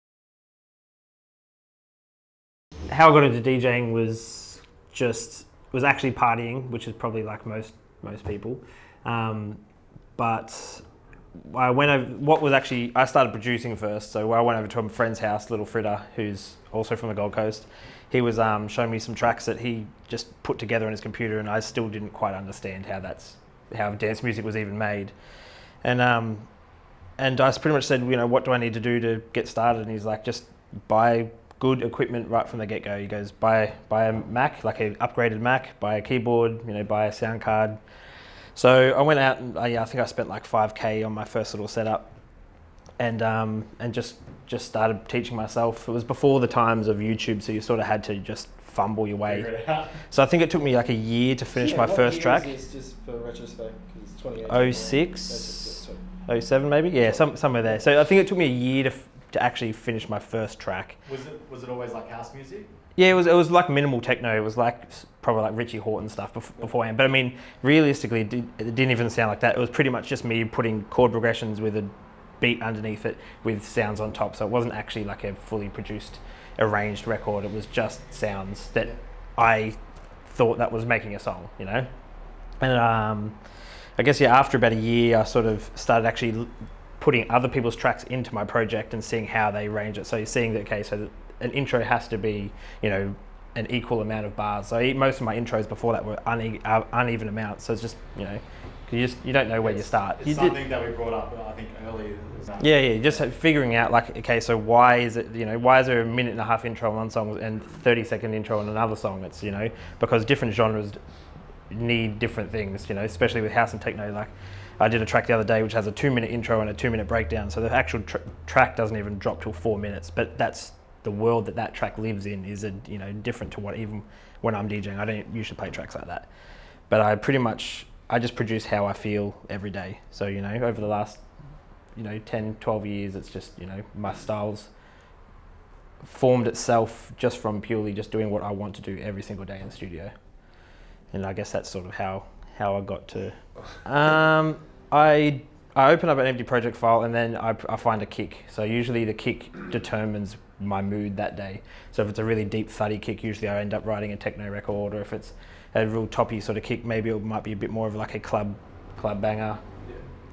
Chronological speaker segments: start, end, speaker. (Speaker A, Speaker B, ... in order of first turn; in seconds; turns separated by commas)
Speaker A: 2.9-9.6, Speaker A: 10.2-10.8, Speaker A: 11.5-25.1, Speaker A: 25.8-26.5, Speaker A: 27.2-37.8, Speaker A: 38.5-42.1, Speaker A: 43.0-52.5, Speaker B: 49.2-50.0, Speaker C: 51.5-56.0, Speaker A: 54.5-61.0, Speaker C: 57.0-57.6, Speaker B: 61.0-62.7, Speaker A: 63.0-79.8, Speaker A: 80.3-81.9, Speaker A: 82.6-83.4, Speaker A: 84.0-100.6, Speaker B: 99.6-103.2, Speaker A: 102.6-111.0, Speaker A: 111.7-126.3, Speaker A: 126.9-131.2, Speaker A: 132.0-134.7, Speaker A: 136.0-140.1, Speaker A: 141.1-159.6